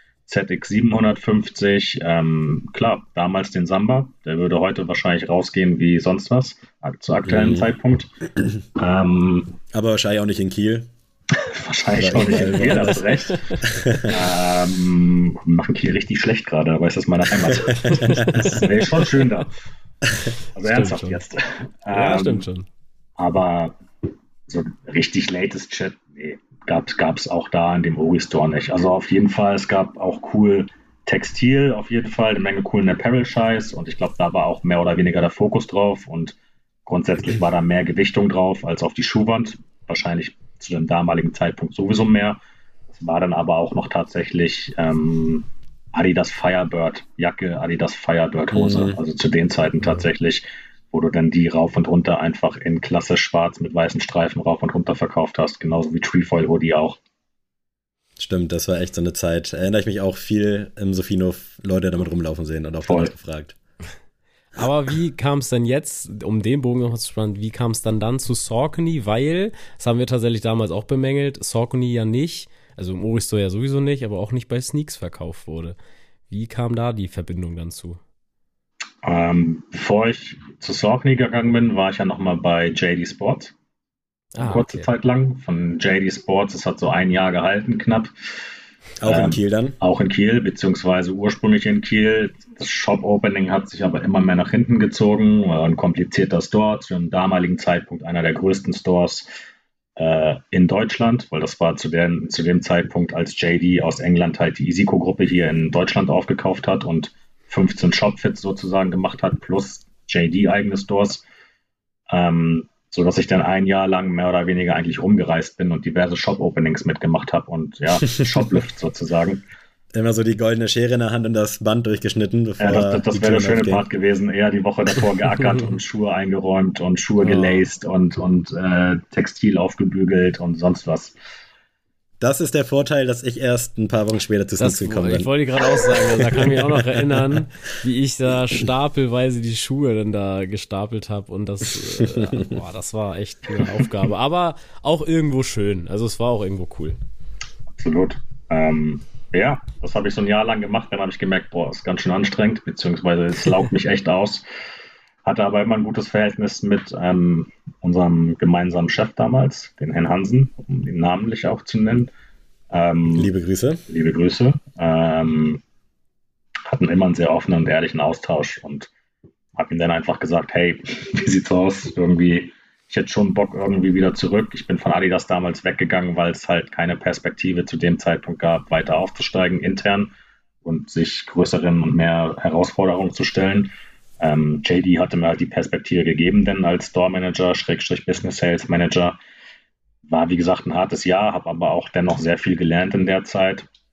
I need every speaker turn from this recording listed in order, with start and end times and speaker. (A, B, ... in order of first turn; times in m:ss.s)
0:00.3-0:08.1 A
0:07.2-0:07.7 B
0:08.8-0:09.6 A
0:09.7-0:10.9 B
0:11.4-0:13.4 A
0:12.0-0:13.0 B
0:12.9-0:13.7 C
0:13.6-0:14.2 B
0:14.1-0:19.5 A
0:17.5-0:18.4 B
0:17.9-0:18.6 C
0:20.5-0:22.4 A
0:20.6-0:21.2 C
0:21.9-0:22.7 C
0:23.2-0:23.8 A
0:24.5-0:42.4 A
0:42.9-0:57.0 A
0:48.5-0:49.0 B
0:58.2-1:03.6 B
1:02.9-1:03.1 A
1:04.6-1:15.8 C
1:16.3-1:18.0 C
1:19.0-1:23.5 A
1:24.3-1:24.9 C
1:24.4-1:28.1 A
1:29.0-1:29.8 B
1:29.1-1:39.3 A
1:40.0-1:51.2 A
1:52.1-1:59.4 A
1:59.9-2:03.8 B
2:02.6-2:11.1 A
2:07.2-2:07.6 C
2:12.2-2:17.2 B
2:14.6-2:27.0 C
2:22.0-2:22.5 B
2:27.8-2:34.4 A
2:35.2-2:42.1 A
2:42.7-2:43.3 A
2:43.1-2:43.8 B
2:43.9-2:45.6 A
2:46.6-2:48.9 A
2:49.6-3:00.1 A
3:00.6-3:09.2 A
3:10.1-3:13.7 A